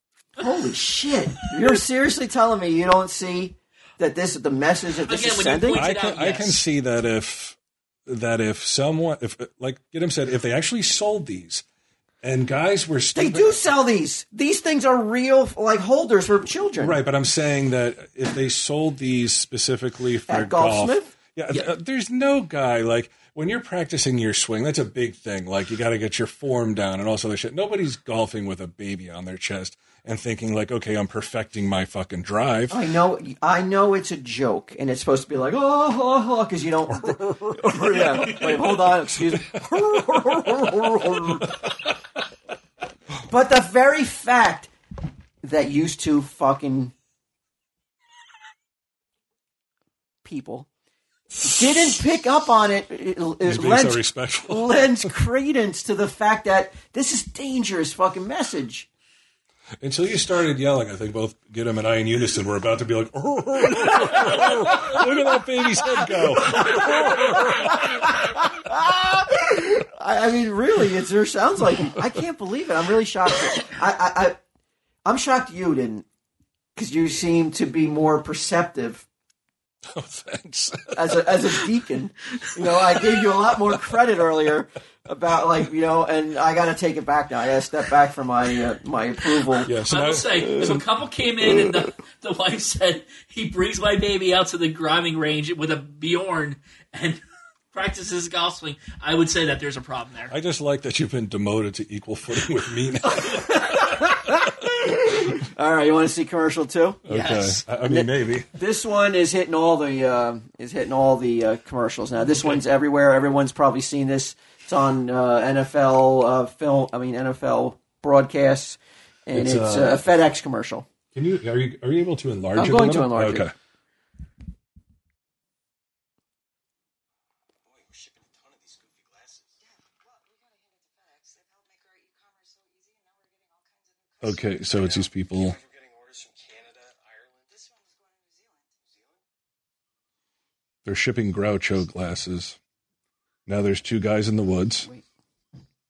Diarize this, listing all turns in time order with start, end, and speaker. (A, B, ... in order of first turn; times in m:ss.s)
0:00.4-0:05.8 A
0:05.0-0:06.6 B
0:05.7-0:11.6 C
0:12.2-0:13.6 C
0:13.1-0:17.0 A
0:16.8-0:32.8 C
0:20.3-0:21.1 A
0:32.7-0:41.6 A
0:36.9-0:40.6 C
0:43.2-0:44.7 A
0:45.4-0:46.9 A
0:50.2-0:50.7 A
0:51.4-0:58.9 A
0:53.4-0:54.9 C
0:59.8-1:08.1 C
1:04.1-1:05.0 A
1:06.0-1:14.4 A
1:15.0-1:16.0 A
1:16.8-1:19.0 A
1:19.9-1:21.5 C
1:20.9-1:29.7 A
1:29.6-1:30.8 C
1:29.8-1:40.3 B
1:40.3-1:43.6 C
1:43.1-1:47.0 A
1:47.0-1:48.5 C
1:47.1-1:47.6 B
1:47.8-2:00.9 A
1:52.4-1:52.6 B
1:59.3-2:00.0 C
2:01.1-2:03.5 C
2:02.5-2:03.5 A
2:07.6-2:09.6 D
2:09.6-2:14.7 E
2:14.2-2:15.6 C
2:14.7-2:17.7 D
2:17.5-2:18.7 E
2:18.8-2:19.2 D
2:20.8-2:22.6 C
2:23.4-2:24.9 C